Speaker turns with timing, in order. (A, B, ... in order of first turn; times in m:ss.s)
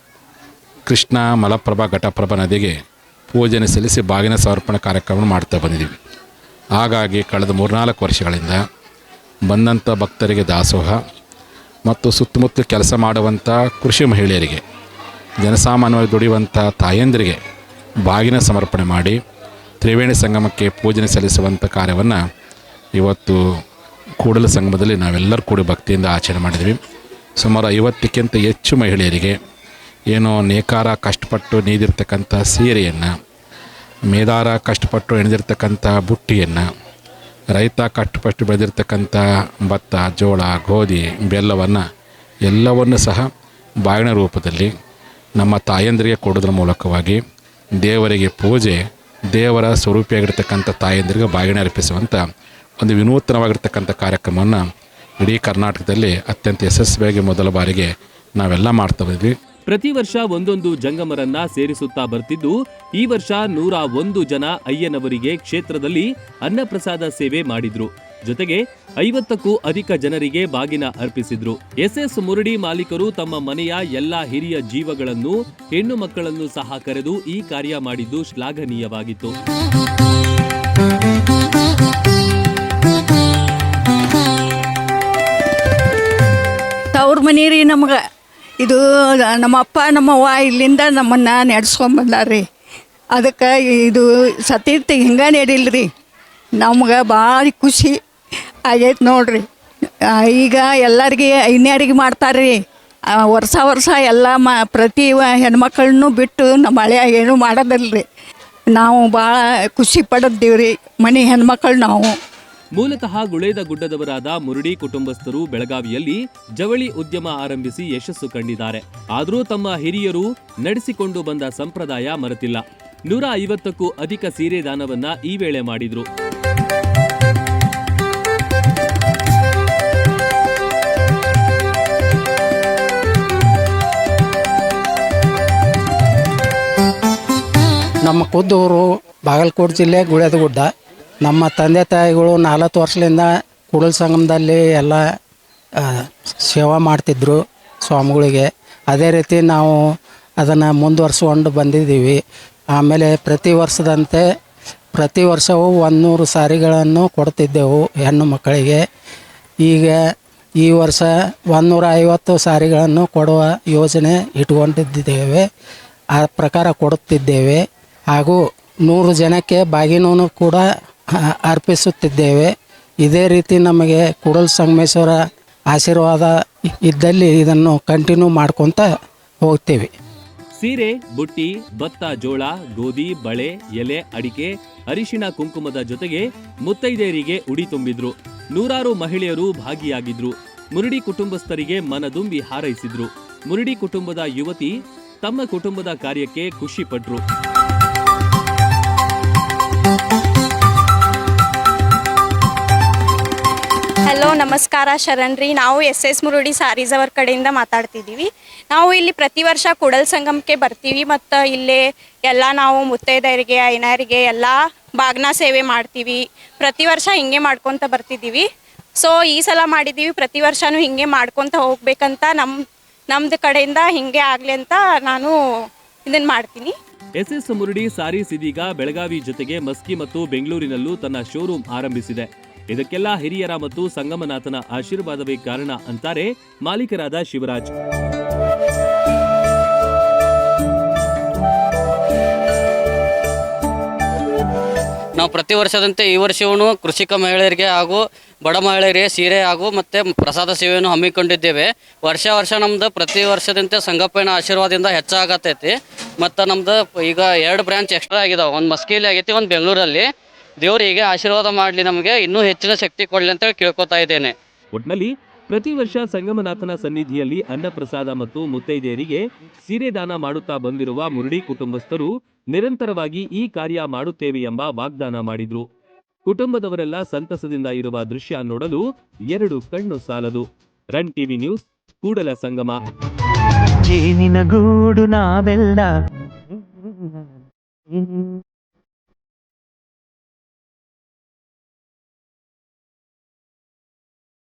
0:00.9-0:02.8 A
0:03.3-0:05.9 A
0:06.8-0:08.6 A
0:09.5-0:11.0 A
0:11.8-0:14.6 A
0:15.4-0:17.4 A
0:18.0-0:19.2 A
0:19.8-0:22.2 A
0:23.0-0:23.4 A
0:24.2-0:26.8 A
0:27.4-0:29.3 A
0:30.1-0:33.1 A
0:34.1-0:36.7 A
0:37.5-0:41.8 A
0:42.4-0:43.3 A
0:43.8-0:44.7 A
0:45.4-0:47.2 A
0:47.8-0:48.8 A
0:49.3-0:52.2 A
0:52.8-0:54.6 A
0:55.2-0:59.3 A
0:59.7-1:19.3 B
1:26.9-1:28.0 C
1:28.6-1:32.4 C
1:33.1-1:35.9 C
1:36.6-1:38.0 C
1:38.7-1:39.4 C
1:40.1-1:42.6 C
1:43.2-1:48.0 C
1:48.7-1:52.1 C
1:52.7-2:06.0 B
2:18.0-2:20.7 D
2:21.2-2:25.0 D
2:25.8-2:29.8 D
2:30.4-2:32.2 D
2:32.7-2:34.2 D
2:34.9-2:38.8 D
2:39.6-2:40.0 D
2:40.6-2:45.4 D
2:46.2-2:50.6 D
2:51.4-2:52.5 D
2:53.0-2:55.2 D
2:55.7-2:56.3 D
2:56.8-2:58.8 D
2:59.4-2:59.9 D
3:00.6-3:17.2 B
3:24.1-3:38.4 E
3:39.0-3:42.6 E
3:43.1-3:45.3 E
3:46.0-3:46.7 E
3:47.2-3:57.7 B
4:05.2-4:20.1 F
4:20.6-4:24.3 F
4:24.7-4:35.6 B
4:36.2-4:42.8 B
4:43.9-4:45.9 G